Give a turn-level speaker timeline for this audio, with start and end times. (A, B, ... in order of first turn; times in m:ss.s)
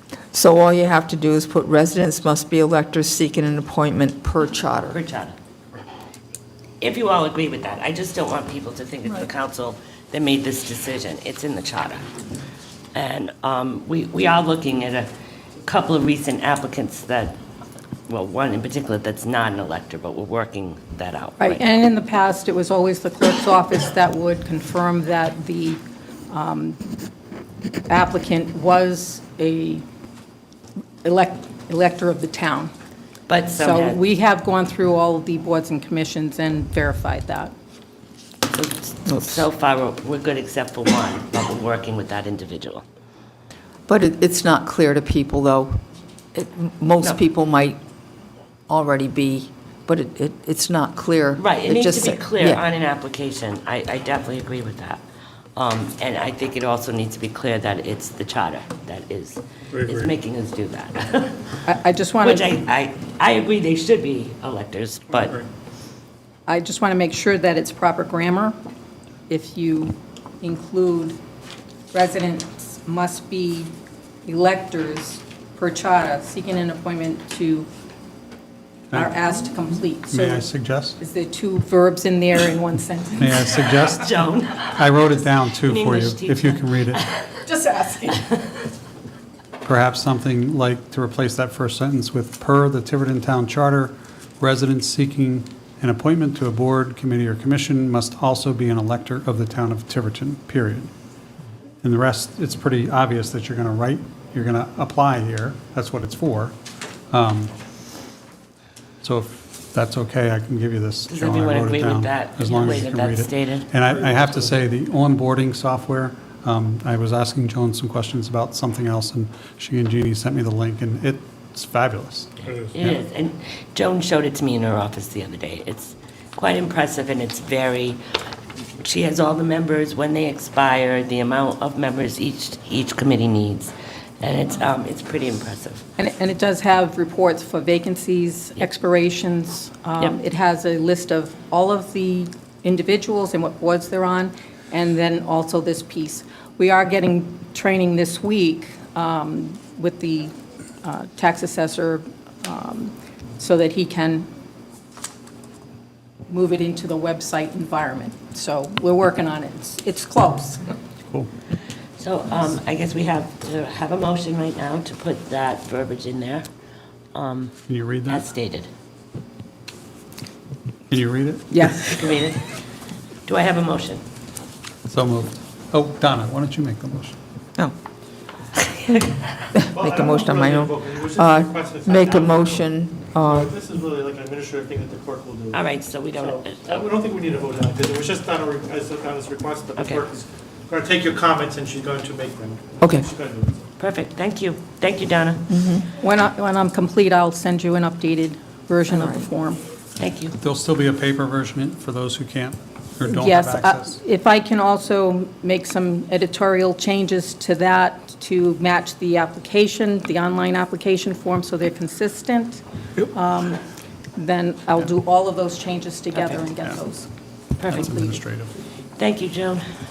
0:00.3-0:05.0 A
0:04.9-0:05.3 B
0:06.8-0:12.0 B
0:12.9-0:15.1 B
0:15.6-0:17.4 B
0:18.1-0:21.6 B
0:21.4-0:25.8 C
0:26.3-0:26.8 C
0:27.9-0:29.8 C
0:31.0-0:32.7 C
0:33.3-0:34.0 B
0:33.6-0:37.5 C
0:38.5-0:42.8 B
0:39.1-0:39.4 A
0:43.9-0:45.8 A
0:46.3-0:47.8 A
0:48.7-0:52.6 A
0:51.4-0:55.0 B
0:55.6-1:01.6 B
0:59.8-1:00.1 D
1:01.6-1:02.5 C
1:02.2-1:05.4 B
1:06.5-1:08.5 C
1:09.3-1:11.2 C
1:11.9-1:13.7 C
1:14.2-1:17.7 C
1:18.9-1:19.2 E
1:18.9-1:23.6 C
1:20.1-1:21.0 E
1:23.2-1:24.1 E
1:23.9-1:24.9 B
1:24.8-1:27.0 E
1:25.6-1:27.3 B
1:27.4-1:28.3 C
1:29.6-1:40.9 E
1:41.8-1:46.5 E
1:47.1-1:47.5 E
1:49.0-2:03.0 E
1:51.1-1:53.7 B
1:54.0-1:54.5 D
2:02.7-2:08.0 B
2:08.8-2:15.8 B
2:16.0-2:34.3 C
2:36.3-2:40.7 C
2:42.0-2:46.4 B
2:47.1-2:47.6 B
2:47.7-2:48.2 E
2:48.1-2:48.7 B
2:50.9-2:51.5 E
2:51.5-2:51.8 C
2:51.8-2:52.5 B
2:53.2-2:54.0 B
2:54.9-2:57.2 E
2:59.5-3:03.5 A
2:59.7-3:02.6 D
3:03.2-3:13.6 D
3:05.5-3:06.8 B
3:09.8-3:10.0 B
3:12.8-3:13.1 A
3:13.8-3:15.5 B
3:15.5-3:15.9 A
3:15.9-3:19.6 C
3:18.9-3:19.2 A
3:20.0-3:20.4 B
3:20.4-3:24.0 E
3:23.0-3:33.6 C
3:34.1-3:37.1 C
3:37.6-3:38.2 C
3:37.7-3:38.5 E
3:39.0-3:39.6 B